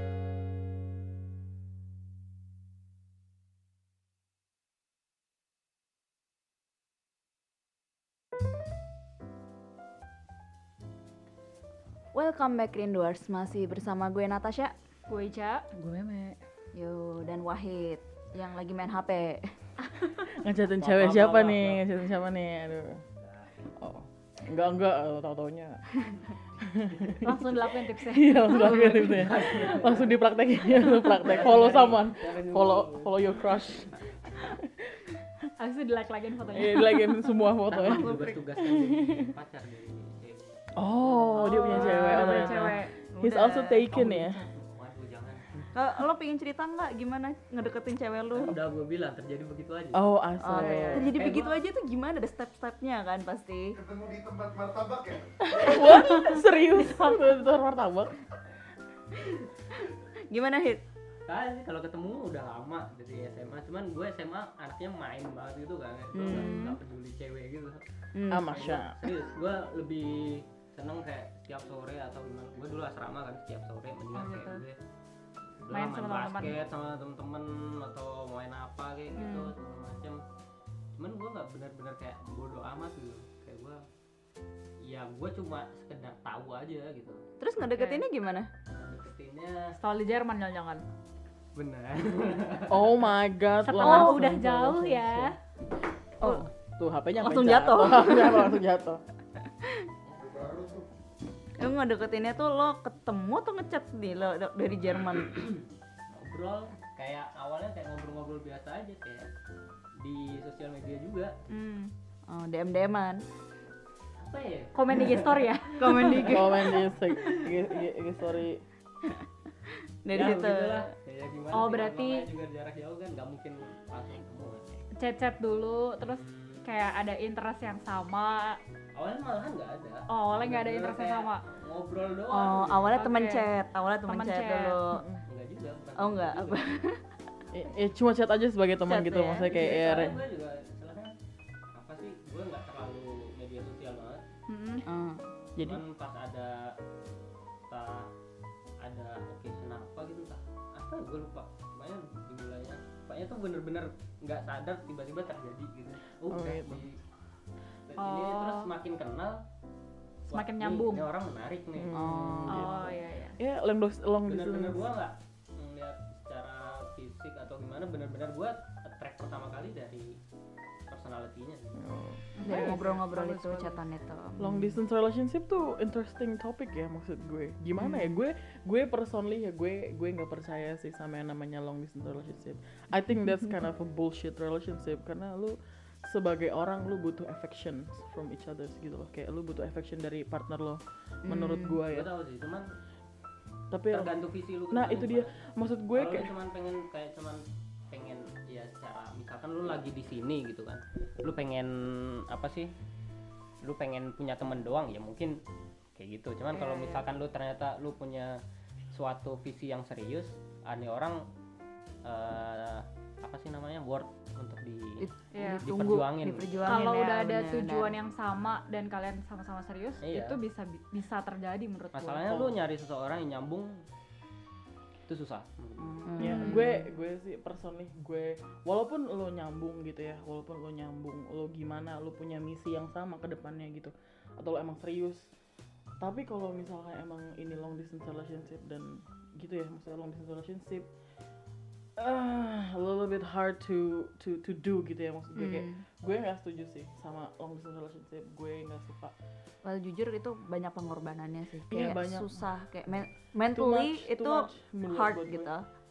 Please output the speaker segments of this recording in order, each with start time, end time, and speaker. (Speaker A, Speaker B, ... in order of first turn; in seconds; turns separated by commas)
Speaker A: 12.1-14.7, Speaker B: 15.1-15.7, Speaker C: 15.8-16.4, Speaker A: 16.7-19.5, Speaker C: 20.3-23.0, Speaker D: 20.8-21.8, Speaker C: 23.8-25.8, Speaker C: 26.6-35.1, Speaker B: 27.2-29.0, Speaker D: 29.0-30.1, Speaker D: 31.0-33.4, Speaker B: 35.6-37.3, Speaker C: 36.5-39.3, Speaker D: 37.7-40.6, Speaker A: 37.9-38.4, Speaker C: 40.8-44.4, Speaker A: 41.4-43.9, Speaker B: 41.4-42.9, Speaker D: 43.9-45.6, Speaker A: 45.8-48.5, Speaker D: 48.3-50.1, Speaker C: 49.9-51.1, Speaker A: 50.4-53.8, Speaker D: 50.9-51.6, Speaker E: 53.8-55.2, Speaker C: 55.4-58.2, Speaker B: 55.8-57.1, Speaker A: 60.3-60.8, Speaker D: 61.3-67.8, Speaker A: 66.2-66.8, Speaker A: 68.1-68.6, Speaker C: 68.3-69.0, Speaker D: 68.5-74.8, Speaker B: 74.1-74.6, Speaker D: 75.6-80.2, Speaker B: 75.7-76.6, Speaker B: 79.2-79.5, Speaker D: 81.0-83.8, Speaker D: 84.8-87.2, Speaker A: 87.4-88.5, Speaker B: 87.7-88.0, Speaker D: 88.7-89.7, Speaker B: 89.8-90.8, Speaker D: 91.6-92.9, Speaker C: 92.7-95.3, Speaker B: 93.7-95.3, Speaker A: 93.8-94.2, Speaker C: 96.2-99.0, Speaker A: 97.2-98.5, Speaker E: 100.2-100.9, Speaker A: 101.6-105.5, Speaker D: 105.3-109.3, Speaker D: 110.0-111.3, Speaker A: 111.5-113.2, Speaker D: 114.2-116.3, Speaker B: 114.8-116.2, Speaker A: 115.8-116.8, Speaker C: 116.2-118.6, Speaker A: 120.0-120.9, Speaker D: 120.1-124.8, Speaker B: 121.5-122.3, Speaker B: 125.0-128.6, Speaker D: 126.0-126.6, Speaker D: 128.9-133.1, Speaker B: 130.1-131.4, Speaker A: 132.3-135.0, Speaker B: 132.9-133.5, Speaker B: 134.1-134.8, Speaker C: 134.9-135.2, Speaker D: 135.3-136.7, Speaker A: 136.0-137.0, Speaker C: 137.5-140.2, Speaker A: 138.9-139.6, Speaker D: 139.5-141.1, Speaker D: 141.7-144.2, Speaker B: 144.5-144.8, Speaker A: 144.9-145.3, Speaker C: 145.6-145.8, Speaker D: 145.6-146.8, Speaker D: 147.7-148.1, Speaker D: 148.8-157.0, Speaker C: 156.3-156.9, Speaker D: 157.9-159.4, Speaker B: 158.0-158.7, Speaker D: 160.3-162.0, Speaker B: 160.3-161.1, Speaker C: 161.8-164.8, Speaker A: 161.9-162.7, Speaker B: 162.5-163.4, Speaker D: 164.3-170.2, Speaker D: 170.9-171.8, Speaker C: 171.8-172.8, Speaker B: 172.4-173.8, Speaker A: 172.4-174.8, Speaker C: 174.4-192.1, Speaker A: 177.8-178.2, Speaker A: 183.2-183.5, Speaker A: 191.2-191.8, Speaker D: 191.9-192.7, Speaker C: 193.7-194.1, Speaker D: 193.9-195.3, Speaker C: 194.7-196.3, Speaker D: 195.9-202.7, Speaker D: 203.6-205.4, Speaker D: 206.0-208.4, Speaker B: 206.5-207.0, Speaker D: 208.9-211.2, Speaker D: 212.0-215.1, Speaker A: 215.0-217.9, Speaker B: 215.3-215.7, Speaker D: 215.6-216.6, Speaker B: 216.7-222.5, Speaker D: 220.0-220.4, Speaker D: 221.9-223.8, Speaker D: 225.1-226.3, Speaker C: 225.8-235.3, Speaker A: 226.1-226.8, Speaker C: 236.0-240.9, Speaker C: 242.0-249.1, Speaker A: 245.4-245.8, Speaker A: 249.7-255.7, Speaker C: 251.7-252.5, Speaker C: 253.5-255.5